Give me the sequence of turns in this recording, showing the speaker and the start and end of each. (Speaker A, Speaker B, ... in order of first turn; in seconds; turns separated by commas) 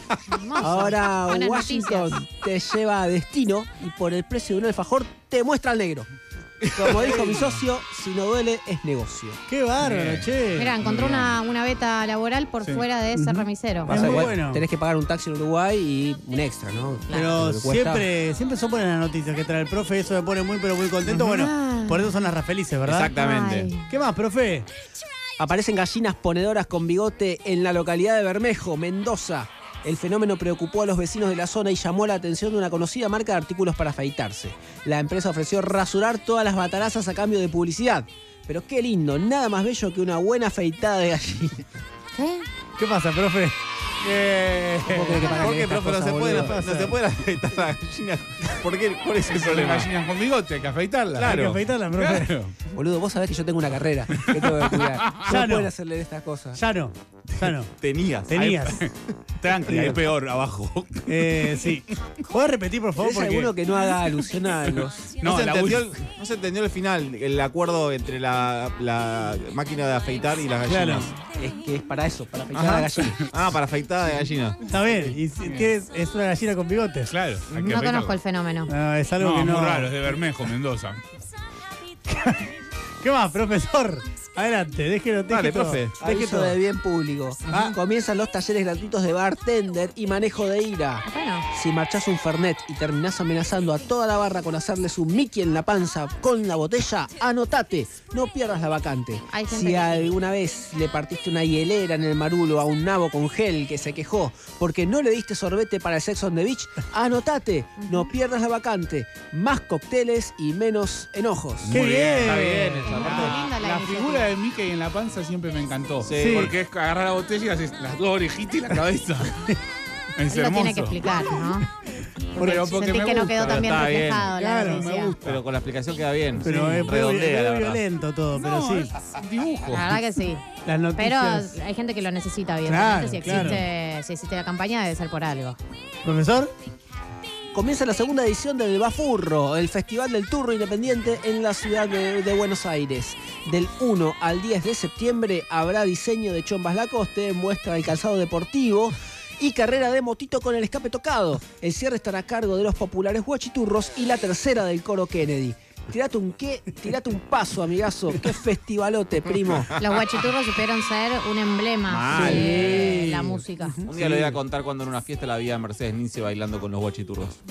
Speaker A: 0.3-2.2, Speaker B: 0.6-6.1, Speaker C: 6.6-7.4, Speaker B: 6.7-9.4, Speaker D: 9.5-10.8, Speaker E: 9.8-10.3, Speaker A: 10.6-14.1, Speaker E: 10.8-11.3, Speaker D: 13.1-14.6, Speaker B: 13.9-18.1, Speaker D: 17.1-23.1, Speaker A: 21.1-22.1, Speaker C: 22.8-23.7, Speaker A: 23.1-23.9, Speaker D: 23.9-24.7, Speaker B: 25.4-41.6, Speaker A: 42.1-42.5, Speaker D: 42.8-45.2, Speaker B: 44.9-46.6, Speaker C: 45.2-49.9, Speaker D: 46.3-47.0, Speaker E: 49.3-52.5, Speaker C: 51.1-51.6, Speaker D: 51.2-52.3, Speaker B: 52.7-56.6, Speaker E: 54.2-55.3, Speaker D: 55.3-55.7, Speaker D: 56.5-57.7, Speaker C: 57.5-58.4, Speaker D: 58.3-58.8, Speaker E: 58.3-58.9, Speaker E: 59.4-61.7, Speaker D: 59.7-60.0, Speaker D: 61.1-63.5, Speaker B: 63.0-65.1, Speaker E: 65.2-66.0, Speaker C: 65.2-71.2, Speaker D: 70.7-71.1, Speaker B: 71.3-73.2, Speaker C: 72.5-74.6, Speaker E: 73.0-73.3, Speaker D: 74.7-77.1, Speaker E: 74.9-75.7, Speaker E: 77.1-78.2, Speaker C: 77.5-77.8, Speaker A: 77.5-78.7, Speaker D: 78.7-80.0, Speaker E: 79.2-81.0, Speaker D: 82.1-82.4, Speaker D: 83.0-86.5, Speaker C: 85.3-86.0, Speaker B: 86.0-111.7, Speaker D: 87.5-87.7, Speaker A: 91.0-91.5, Speaker A: 99.3-100.1, Speaker A: 107.8-108.1, Speaker D: 111.7-112.9, Speaker E: 111.7-119.4, Speaker C: 111.8-113.4, Speaker A: 112.9-114.3, Speaker C: 116.0-116.5, Speaker D: 116.1-116.5, Speaker E: 120.2-121.4, Speaker A: 120.3-121.7, Speaker A: 122.4-125.2, Speaker E: 122.4-125.4, Speaker C: 123.5-124.3, Speaker D: 124.4-124.9, Speaker C: 125.2-127.8, Speaker D: 126.4-128.9, Speaker E: 128.3-129.9, Speaker A: 129.7-130.4, Speaker D: 130.6-131.6, Speaker A: 131.0-135.6, Speaker D: 132.7-133.6, Speaker E: 133.3-133.6, Speaker D: 136.0-136.5, Speaker B: 137.5-159.7, Speaker C: 159.4-160.0, Speaker A: 159.8-163.8, Speaker C: 161.9-163.0, Speaker D: 162.1-163.2, Speaker B: 162.3-164.4, Speaker C: 163.8-167.3